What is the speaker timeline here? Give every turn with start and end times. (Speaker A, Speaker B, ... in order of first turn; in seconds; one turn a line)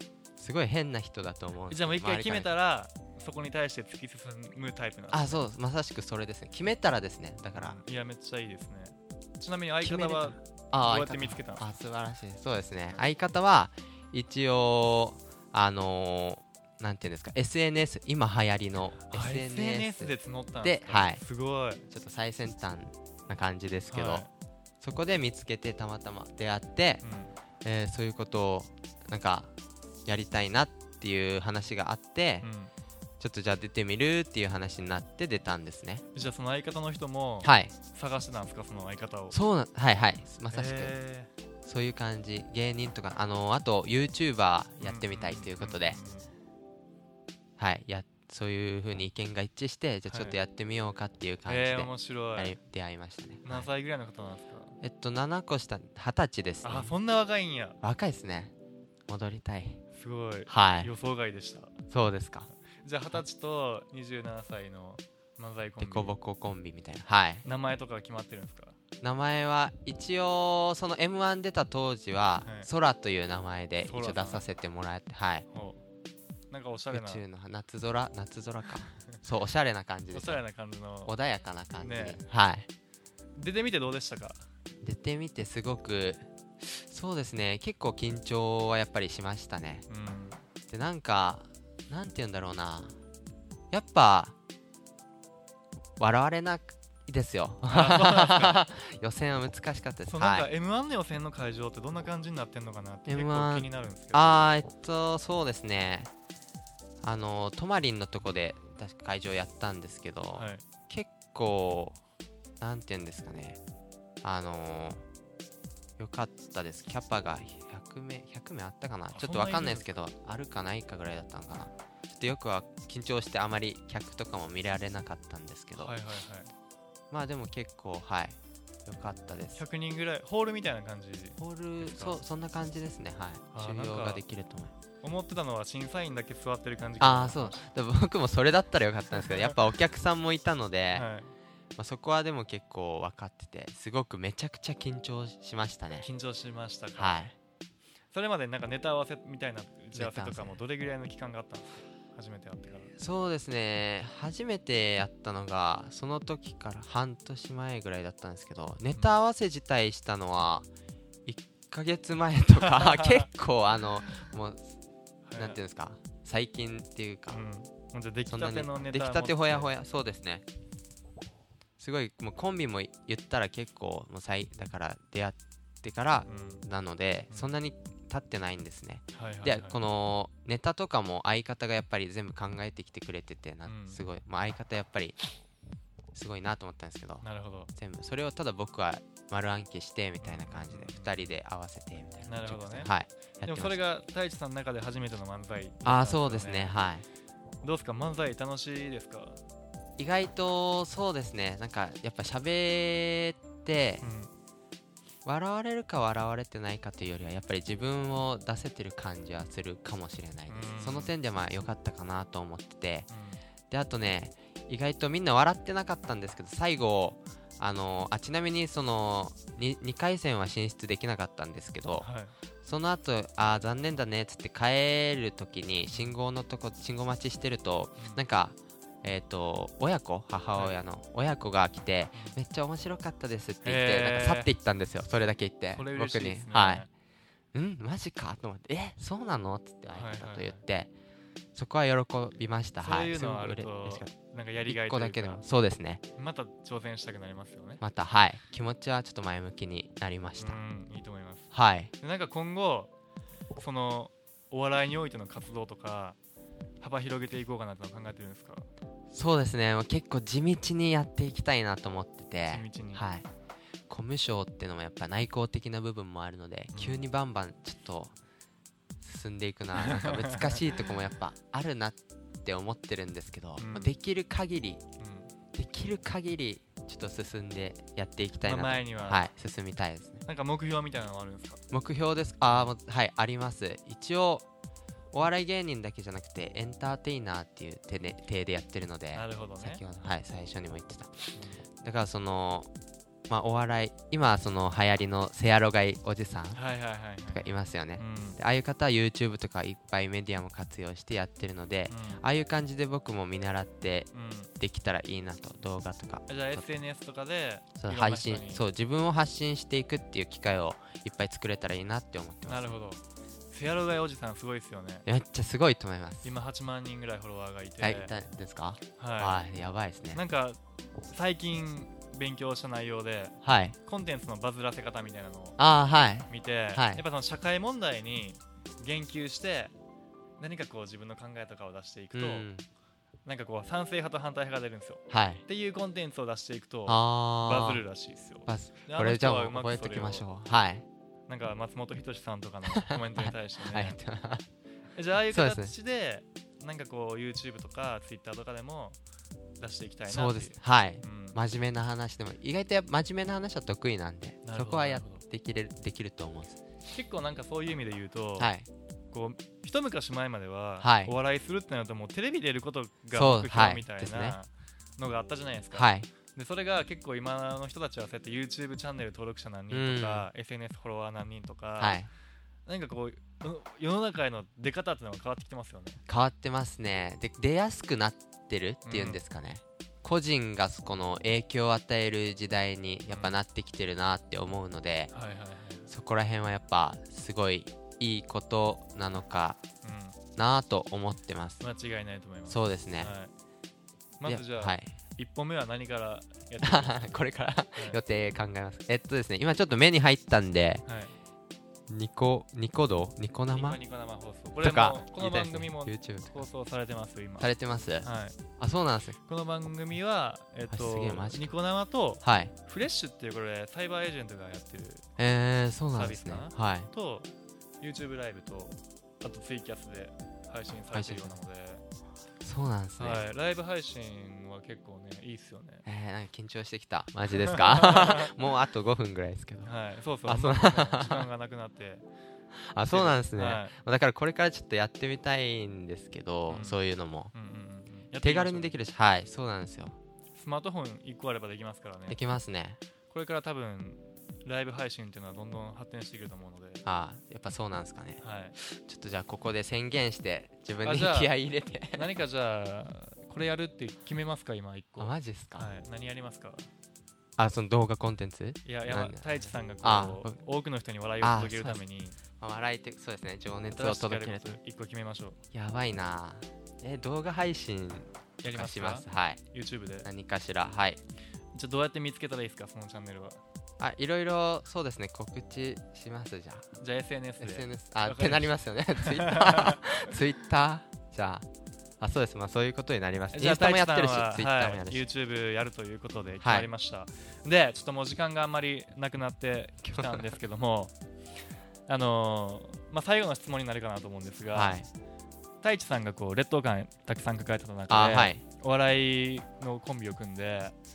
Speaker A: 0.4-2.5
Speaker B: 1.7-5.5
Speaker A: 5.1-7.8
Speaker B: 7.5-11.6
Speaker A: 9.8-21.2
Speaker B: 19.1-21.9
Speaker A: 21.9-24.3
Speaker B: 23.9-24.3
Speaker A: 24.8-27.0
Speaker B: 27.0-27.3
Speaker A: 27.6-29.5
Speaker A: 30.1-32.5
Speaker B: 32.4-32.7
Speaker A: 33.2-36.0
Speaker B: 36.1-39.4
Speaker A: 37.4-37.7
Speaker A: 39.3-40.9
Speaker B: 40.5-41.3
Speaker A: 41.6-46.0
Speaker B: 44.8-46.3
Speaker A: 47.6-53.7
Speaker B: 50.1-50.4
Speaker B: 51.5-52.6
Speaker B: 53.4-54.8
Speaker A: 54.8-56.9
Speaker B: 56.6-57.8
Speaker A: 57.8-58.5
Speaker A: 59.1-59.8
Speaker B: 59.9-61.8
Speaker A: 60.5-60.9
Speaker A: 61.9-62.5
Speaker B: 62.8-66.2
Speaker A: 65.8-67.4
Speaker B: 67.5-68.8
Speaker A: 69.0-75.5
Speaker B: 72.4-72.7
Speaker B: 73.8-74.4
Speaker B: 75.5-75.8
Speaker B: 76.5-77.2
Speaker A: 76.9-80.4
Speaker B: 80.1-81.1
Speaker A: 81.1-82.7
Speaker B: 81.8-82.2
Speaker B: 83.4-84.5
Speaker A: 84.8-89.8
Speaker B: 89.9-90.4
Speaker A: 90.7-93.0
Speaker A: 93.7-94.3
Speaker A: 96.0-100.5
Speaker B: 97.7-98.6
Speaker B: 100.1-104.5
Speaker A: 103.1-106.1
Speaker A: 107.0-112.0
Speaker B: 110.4-110.6
Speaker A: 112.6-113.6
Speaker A: 114.2-115.0
Speaker A: 116.0-125.9
Speaker B: 119.1-120.0
Speaker B: 125.8-126.5
Speaker A: 127.1-129.6
Speaker B: 129.6-132.2
Speaker A: 131.4-134.7
Speaker B: 133.5-134.2
Speaker B: 135.0-137.7
Speaker A: 137.0-141.1
Speaker B: 140.9-141.3
Speaker A: 141.8-146.1
Speaker B: 146.0-147.2
Speaker A: 147.0-147.3
Speaker B: 148.1-152.9
Speaker A: 149.9-150.6
Speaker A: 153.0-160.7
Speaker A: 161.2-164.8
Speaker B: 162.6-163.3
Speaker B: 165.3-165.6
Speaker A: 165.4-167.4
Speaker B: 167.3-169.7
Speaker A: 168.3-170.4
Speaker A: 171.8-185.2
Speaker B: 176.3-176.6
Speaker B: 179.1-179.8
Speaker B: 183.7-184.0
Speaker A: 186.1-187.2
Speaker B: 187.2-187.7
Speaker A: 187.8-193.8
Speaker B: 190.2-191.2
Speaker B: 192.2-196.7
Speaker A: 195.8-197.0
Speaker B: 197.6-199.4
Speaker A: 200.0-204.0
Speaker B: 204.0-204.3
Speaker A: 205.2-213.1
Speaker B: 210.5-211.1
Speaker B: 213.1-213.4
Speaker A: 213.7-222.1
Speaker B: 222.0-222.3
Speaker A: 222.6-236.9
Speaker B: 233.6-234.5
Speaker B: 235.7-236.9
Speaker A: 237.5-240.9
Speaker B: 239.9-240.6
Speaker A: 241.5-244.1
Speaker B: 242.8-245.4
Speaker A: 244.7-246.0
Speaker B: 246.2-247.8
Speaker A: 247.8-250.6
Speaker B: 250.4-252.9
Speaker A: 251.5-251.9
Speaker B: 253.6-256.2
Speaker B: 256.8-258.7
Speaker A: 259.1-263.2
Speaker B: 262.5-263.1
Speaker A: 263.9-268.1
Speaker B: 266.7-267.0
Speaker A: 269.0-274.8
Speaker B: 269.8-270.6
Speaker B: 273.6-274.0
Speaker B: 275.0-275.3
Speaker A: 275.5-280.2
Speaker B: 278.4-279.2
Speaker B: 280.2-281.6
Speaker A: 281.7-284.5
Speaker A: 285.1-291.3
Speaker B: 289.1-289.8
Speaker B: 291.3-291.6
Speaker A: 291.8-292.7
Speaker A: 293.3-296.6
Speaker B: 296.5-297.5
Speaker A: 297.3-306.7
Speaker B: 298.0-298.4
Speaker B: 301.9-302.2
Speaker B: 304.1-304.5
Speaker B: 306.3-308.6
Speaker A: 307.8-312.7
Speaker B: 312.5-315.0
Speaker A: 315.1-316.3
Speaker B: 316.2-318.1
Speaker A: 317.8-320.2
Speaker B: 319.0-319.4
Speaker B: 320.1-320.6
Speaker B: 321.1-325.6
Speaker A: 323.4-323.8
Speaker A: 325.6-327.0
Speaker B: 326.3-329.7
Speaker B: 330.4-332.5
Speaker A: 332.1-332.6
Speaker B: 333.2-340.2
Speaker A: 335.1-335.4
Speaker A: 336.9-337.8
Speaker A: 338.5-340.9
Speaker B: 341.3-344.0
Speaker A: 342.8-344.4
Speaker B: 344.9-349.0
Speaker A: 345.3-345.7
Speaker B: 349.6-351.4
Speaker A: 350.1-356.6
Speaker B: 354.4-355.2
Speaker B: 356.9-358.5
Speaker A: 358.4-358.7
Speaker B: 359.1-372.0
Speaker A: 360.8-361.1
Speaker A: 363.1-364.4
Speaker A: 365.7-366.1
Speaker A: 369.7-370.3
Speaker A: 371.8-372.1
Speaker B: 372.7-376.0
Speaker A: 376.1-385.1
Speaker B: 378.9-379.2
Speaker B: 383.1-383.4
Speaker B: 385.1-385.9
Speaker A: 385.9-389.6
Speaker B: 389.8-390.2
Speaker A: 390.4-391.6
Speaker B: 391.6-393.3
Speaker A: 392.5-393.1
Speaker B: 394.2-397.0
Speaker A: 394.2-394.9
Speaker A: 396.6-400.8
Speaker B: 400.9-401.1
Speaker A: 401.9-403.8
Speaker B: 403.5-407.5
Speaker A: 404.6-406.5
Speaker A: 407.4-408.1
Speaker B: 408.0-408.4
Speaker A: 408.6-409.2
Speaker B: 409.3-415.1
Speaker A: 410.7-411.5
Speaker A: 412.2-412.5
Speaker A: 415.2-416.9
Speaker B: 415.9-421.8
Speaker A: 420.9-421.4
Speaker A: 422.4-423.2
Speaker B: 423.0-425.8
Speaker A: 425.9-429.7
Speaker B: 427.4-428.3
Speaker B: 429.6-432.0
Speaker A: 430.2-431.2
Speaker A: 432.7-437.3
Speaker B: 432.9-433.8
Speaker B: 436.5-436.8
Speaker B: 437.3-438.8
Speaker A: 438.2-440.0
Speaker B: 440.4-442.2
Speaker A: 442.1-442.8
Speaker B: 443.1-446.8
Speaker A: 446.9-452.1
Speaker B: 448.2-448.5
Speaker B: 450.8-451.3
Speaker B: 451.9-456.7
Speaker A: 455.0-455.7
Speaker A: 457.4-460.4
Speaker B: 458.6-462.2
Speaker A: 461.2-461.8
Speaker A: 462.4-464.6
Speaker B: 463.7-465.4
Speaker A: 465.5-469.4
Speaker B: 468.4-470.1
Speaker A: 470.0-471.0
Speaker B: 471.5-473.4
Speaker A: 473.8-476.7
Speaker B: 476.8-479.9
Speaker A: 477.4-481.5
Speaker A: 482.0-485.0
Speaker B: 483.3-490.9
Speaker A: 486.4-486.7
Speaker A: 489.8-490.4
Speaker B: 491.9-494.8
Speaker A: 494.5-494.9
Speaker B: 495.6-500.7
Speaker A: 497.9-498.4